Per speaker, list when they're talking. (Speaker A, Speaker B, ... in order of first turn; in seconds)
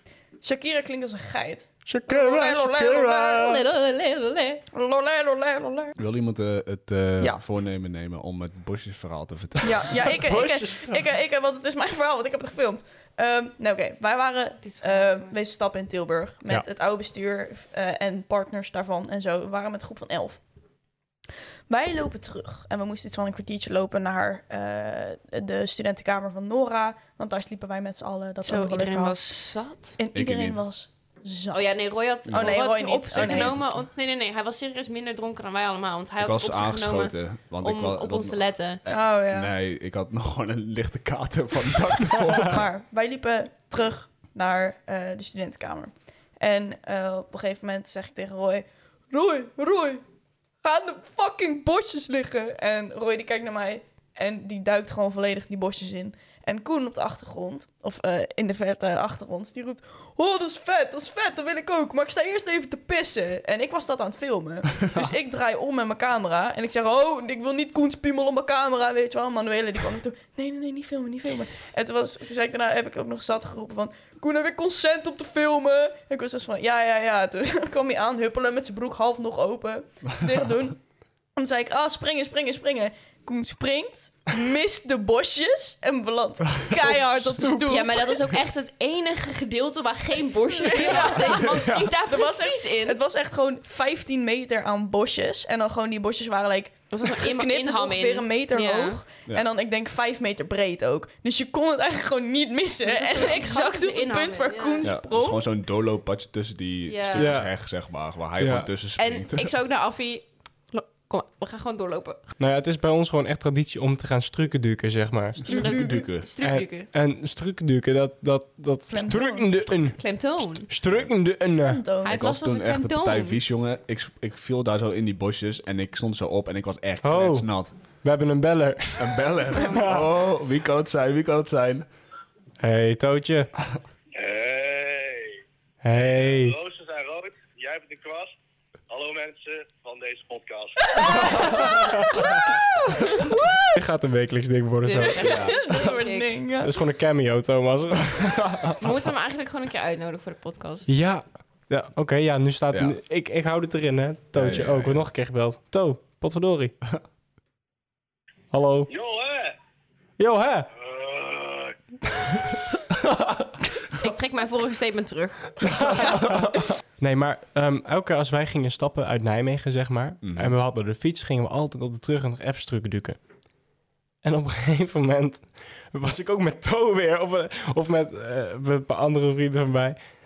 Speaker A: 0.4-3.5, 4.7-6.0, 9.6-20.4, 21.7-29.2, 30.0-31.7, 32.3-33.5, 38.9-39.5, 42.4-50.0, 50.6-80.8, 81.3-88.2, 90.5-105.4, 115.5-116.0, 118.9-119.6, 121.6-122.1, 140.9-143.7, 145.2-146.8
Speaker B: 1.9-3.6, 10.2-11.0, 107.2-107.5, 108.4-108.7, 112.4-115.5, 116.4-121.8, 127.0-127.5, 128.0-130.1, 132.6-133.5, 135.8-136.6, 143.7-145.2, 146.6-148.5, 150.9-156.7, 158.5-158.9, 160.2-160.7, 165.8-166.5, 167.0-173.2, 174.2-180.0
Speaker C: 3.4-4.6, 14.6-15.3, 28.4-30.0, 31.5-38.8, 87.4-93.0, 96.9-99.0, 102.8-104.8, 106.9-107.3, 109.0-112.3, 115.5-116.9, 119.9-120.7, 122.0-123.4, 129.5-129.9, 144.8-146.4, 148.8-150.9, 163.9-166.4
Speaker D: 6.0-10.1, 30.1-30.6, 32.2-33.6, 36.2-42.6, 86.8-87.1, 91.4-91.9, 104.8-109.5, 115.5-116.3, 122.0-127.7, 129.0-131.8, 145.2-145.6, 148.2-149.0, 154.3-155.0, 170.2-170.6
Speaker E: 134.2-135.4, 135.9-138.3, 138.9-141.7, 158.9-159.5, 160.8-162.5